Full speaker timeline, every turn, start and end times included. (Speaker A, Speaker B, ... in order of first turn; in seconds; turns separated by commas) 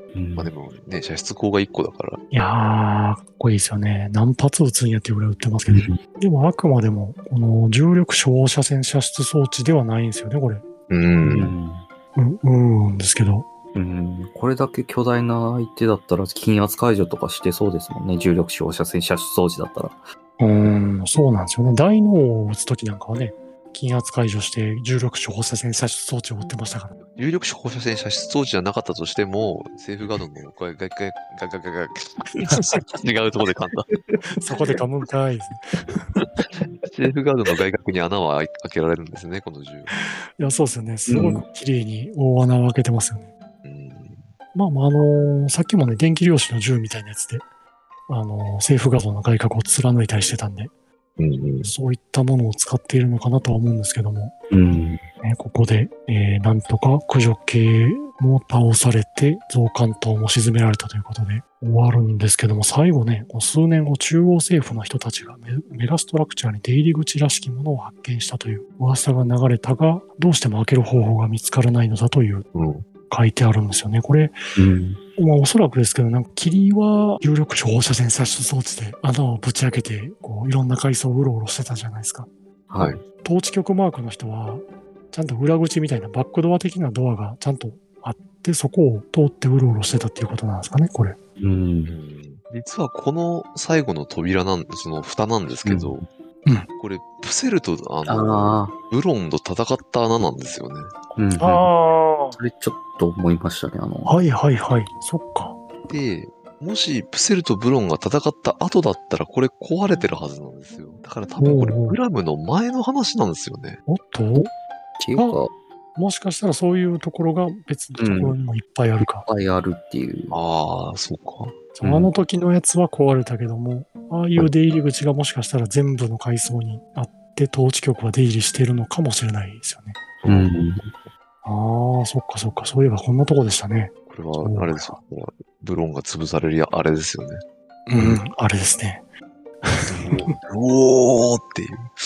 Speaker A: 0.1-0.5, Speaker B: 0.4-2.2, Speaker C: 2.3-10.7, Speaker A: 5.7-6.0, Speaker B: 10.9-11.6, Speaker A: 11.2-11.9, Speaker C: 12.1-13.5, Speaker A: 13.7-20.0, Speaker C: 20.4-27.0, Speaker B: 27.1-33.9, Speaker A: 32.4-32.8, Speaker C: 34.2-36.0, Speaker B: 36.2-39.9, Speaker C: 39.9-43.3, Speaker A: 41.1-41.4, Speaker B: 43.6-44.2, Speaker C: 44.5-47.4, Speaker C: 48.1-50.7, Speaker B: 51.2-51.7, Speaker C: 51.6-54.3, Speaker A: 54.5-55.0, Speaker C: 55.2-72.5, Speaker B: 72.5-72.8, Speaker C: 73.1-74.3, Speaker A: 74.6-75.0, Speaker C: 75.2-82.3, Speaker A: 82.7-83.0, Speaker C: 83.2-91.2, Speaker A: 91.4-92.0, Speaker B: 91.9-96.0, Speaker A: 95.6-96.0, Speaker B: 96.8-100.9, Speaker A: 98.1-98.8, Speaker A: 101.2-101.7, Speaker C: 101.4-102.4, Speaker A: 102.4-104.2, Speaker C: 104.1-105.6, Speaker B: 105.9-113.8, Speaker C: 111.4-112.0, Speaker C: 113.9-114.5, Speaker A: 115.0-115.5, Speaker C: 115.1-115.4, Speaker C: 116.0-119.3, Speaker A: 118.0-118.3, Speaker A: 119.2-120.4, Speaker B: 120.3-121.6, Speaker C: 121.8-130.0, Speaker A: 121.8-122.1, Speaker B: 130.2-130.7, Speaker A: 130.3-130.8, Speaker C: 131.4-134.9, Speaker B: 134.1-137.4, Speaker C: 137.9-139.0, Speaker C: 139.6-140.3, Speaker B: 139.9-141.9